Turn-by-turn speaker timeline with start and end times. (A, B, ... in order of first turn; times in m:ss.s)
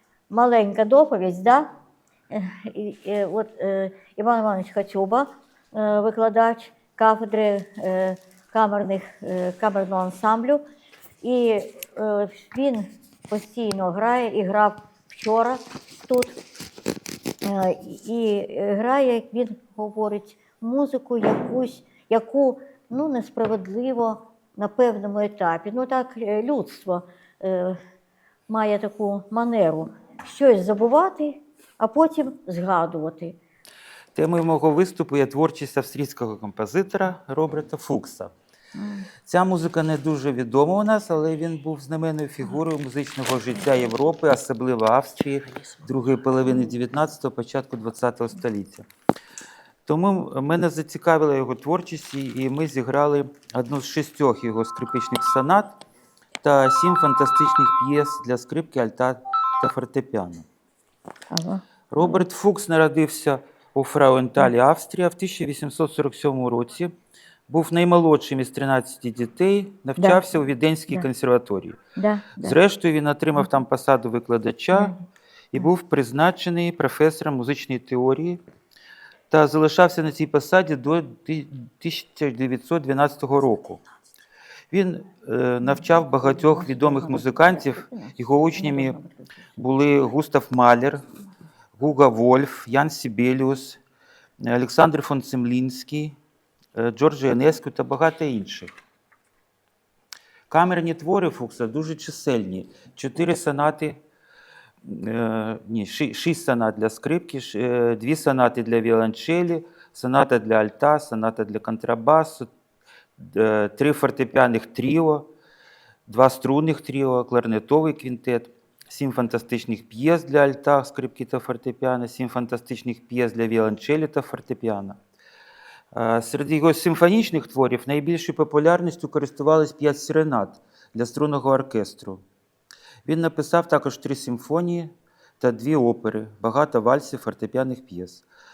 0:00.3-0:01.7 A
0:02.3-0:10.6 A
0:11.2-0:16.3 A
0:17.4-0:27.8 A
0:28.5-0:33.4 A
0:34.1-0:38.3 B
0:38.8-0:39.1 A
0:39.2-0:48.9 B
0:49.8-0:55.8 B
0:56.4-1:00.4 B
1:01.3-1:02.2 A
1:01.9-1:06.9 B
1:07.5-1:11.8 B
1:10.0-1:10.2 A
1:12.0-1:12.6 A
1:12.4-1:14.9 B
1:15.5-1:18.4 B
1:19.3-1:23.8 B
1:24.7-1:29.0 B
1:25.6-1:29.4 A
1:29.6-1:31.0 B
1:31.8-1:33.8 B
1:34.4-1:36.2 B
1:36.7-1:38.7 B
1:40.5-1:44.0 B
1:44.8-1:52.5 B
1:53.2-1:55.2 B
1:56.1-2:05.0 B
2:05.9-2:12.2 B
2:13.0-2:18.2 B